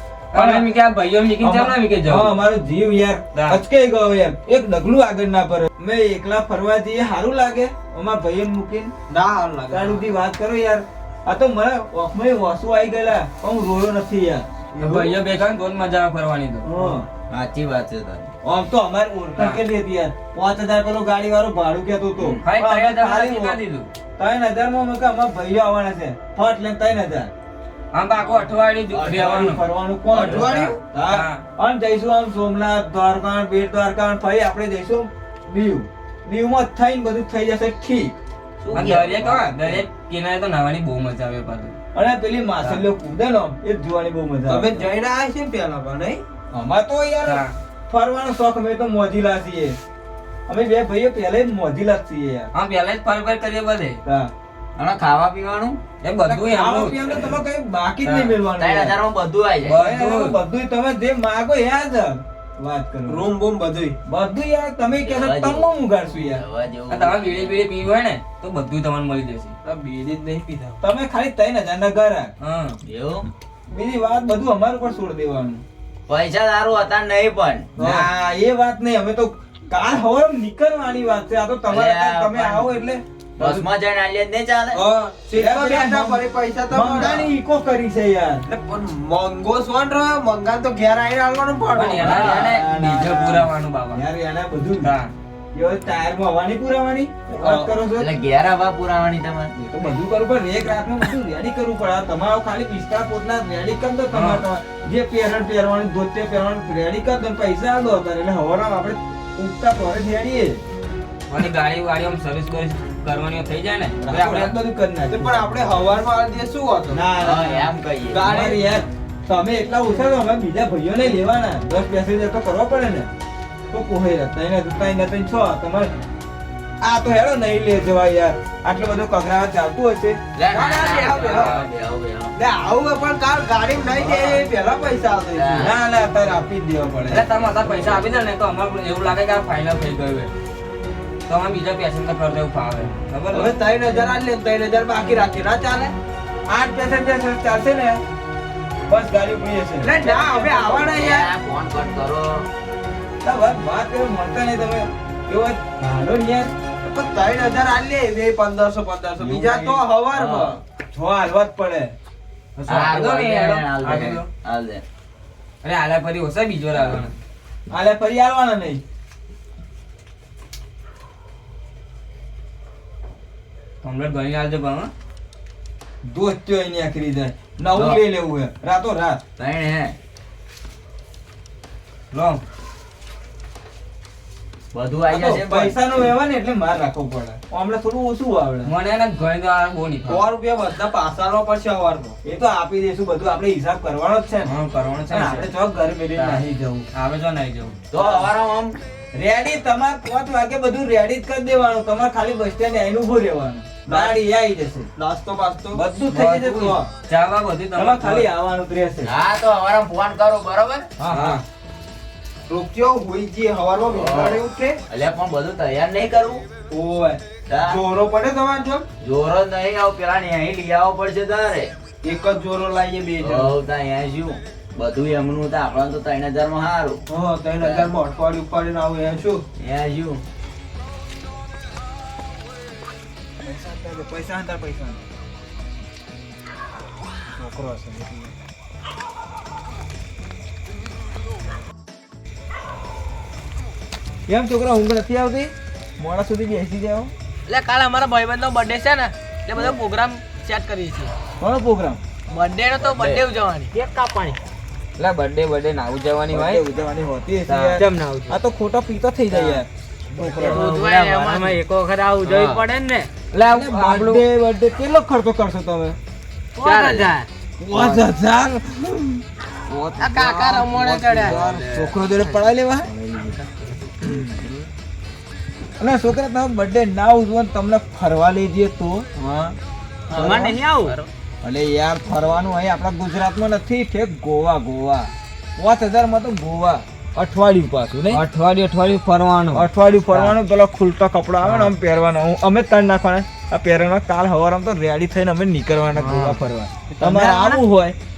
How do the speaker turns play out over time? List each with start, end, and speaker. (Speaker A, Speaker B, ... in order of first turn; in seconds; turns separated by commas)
Speaker A: 0.3-2.3, Speaker B: 0.3-0.7, Speaker B: 1.4-8.9, Speaker A: 3.3-3.6, Speaker C: 9.1-10.1, Speaker B: 9.7-15.1, Speaker A: 14.8-16.7, Speaker B: 16.6-17.1, Speaker D: 17.3-18.3, Speaker B: 18.4-23.6, Speaker A: 19.4-19.6, Speaker A: 22.4-23.9, Speaker B: 24.2-27.3, Speaker A: 27.9-29.6, Speaker B: 28.9-38.1, Speaker C: 30.1-30.8, Speaker D: 30.2-30.7, Speaker A: 30.6-31.4, Speaker D: 38.6-39.5, Speaker A: 38.7-41.8, Speaker B: 41.9-44.8, Speaker C: 44.5-46.2, Speaker B: 46.5-49.8, Speaker A: 47.2-47.5, Speaker B: 50.5-52.5, Speaker A: 52.5-54.0, Speaker B: 54.0-54.3, Speaker D: 54.8-55.8, Speaker A: 56.0-57.1, Speaker B: 56.3-59.0, Speaker A: 58.0-58.4, Speaker D: 58.6-59.8, Speaker A: 59.6-60.4, Speaker B: 59.7-63.3, Speaker C: 63.1-63.9, Speaker B: 64.0-66.4, Speaker D: 65.0-67.6, Speaker A: 66.9-69.5, Speaker C: 69.6-70.8, Speaker B: 70.8-72.3, Speaker A: 72.4-72.8, Speaker D: 72.8-73.3, Speaker B: 73.7-75.6, Speaker D: 76.1-77.7, Speaker C: 77.8-78.1, Speaker B: 77.8-83.6, Speaker D: 81.7-82.7, Speaker D: 83.4-84.8, Speaker C: 84.7-87.3, Speaker B: 85.3-88.4, Speaker C: 88.5-92.5, Speaker A: 91.7-94.0, Speaker B: 92.0-94.9, Speaker A: 94.8-95.1, Speaker B: 95.5-98.1, Speaker D: 97.4-99.5, Speaker B: 99.6-110.6, Speaker A: 104.1-104.4, Speaker A: 111.3-114.5, Speaker B: 114.0-115.5, Speaker C: 115.1-117.0, Speaker B: 116.9-123.1, Speaker D: 117.2-118.4, Speaker C: 118.1-118.7, Speaker B: 123.7-125.9, Speaker B: 126.8-130.2, Speaker D: 130.4-132.3, Speaker C: 130.5-131.5, Speaker A: 131.2-131.7, Speaker C: 132.3-135.7, Speaker B: 133.9-134.4, Speaker D: 135.3-135.7, Speaker B: 135.6-137.2, Speaker A: 137.1-140.3, Speaker A: 141.3-143.6, Speaker C: 143.3-145.9, Speaker B: 146.5-148.0, Speaker B: 148.9-151.0, Speaker C: 149.8-151.3, Speaker D: 150.9-152.5, Speaker B: 153.2-156.5, Speaker C: 156.8-160.6, Speaker B: 159.2-159.8, Speaker D: 160.1-160.6, Speaker B: 160.9-161.9, Speaker A: 162.6-164.3, Speaker D: 162.7-164.8, Speaker A: 165.6-167.1, Speaker B: 167.7-168.8, Speaker A: 173.8-174.9, Speaker B: 176.0-179.2, Speaker D: 177.8-178.0, Speaker D: 179.4-179.9, Speaker A: 182.1-182.4, Speaker D: 184.7-185.8, Speaker B: 185.1-188.7, Speaker A: 188.6-190.2, Speaker C: 190.0-192.2, Speaker B: 192.2-194.5, Speaker A: 194.4-195.5, Speaker B: 195.1-196.9, Speaker A: 196.1-197.8, Speaker D: 197.9-198.8, Speaker B: 197.9-198.3, Speaker B: 199.1-204.9, Speaker C: 203.8-204.2, Speaker C: 205.0-205.8, Speaker B: 205.7-206.9, Speaker A: 206.1-208.3, Speaker B: 207.7-209.1, Speaker D: 209.0-210.9, Speaker B: 211.0-211.4, Speaker A: 211.1-211.4, Speaker C: 212.5-214.8, Speaker D: 213.9-216.4, Speaker C: 216.7-218.8, Speaker D: 217.5-217.8, Speaker D: 219.0-221.7, Speaker C: 222.0-223.5, Speaker D: 223.2-227.0, Speaker C: 227.1-229.4, Speaker D: 227.6-227.9, Speaker D: 229.6-230.2, Speaker B: 233.4-235.0, Speaker B: 237.4-238.3, Speaker B: 244.3-247.1, Speaker E: 247.5-251.1, Speaker B: 251.4-252.0, Speaker E: 252.3-254.4, Speaker D: 252.8-253.2, Speaker A: 255.0-256.6, Speaker B: 256.3-260.7, Speaker A: 257.5-258.4, Speaker D: 260.4-261.6, Speaker E: 260.5-263.1, Speaker A: 262.2-262.6, Speaker A: 263.3-264.2, Speaker B: 263.5-266.0, Speaker E: 266.6-267.3, Speaker A: 266.6-267.1, Speaker B: 267.6-272.9, Speaker E: 270.0-271.4, Speaker B: 274.0-274.4, Speaker B: 275.8-279.2, Speaker B: 280.1-280.6, Speaker D: 280.1-281.0, Speaker B: 281.4-288.2, Speaker A: 288.1-289.6, Speaker B: 289.5-297.9, Speaker A: 291.4-291.7, Speaker A: 295.9-296.4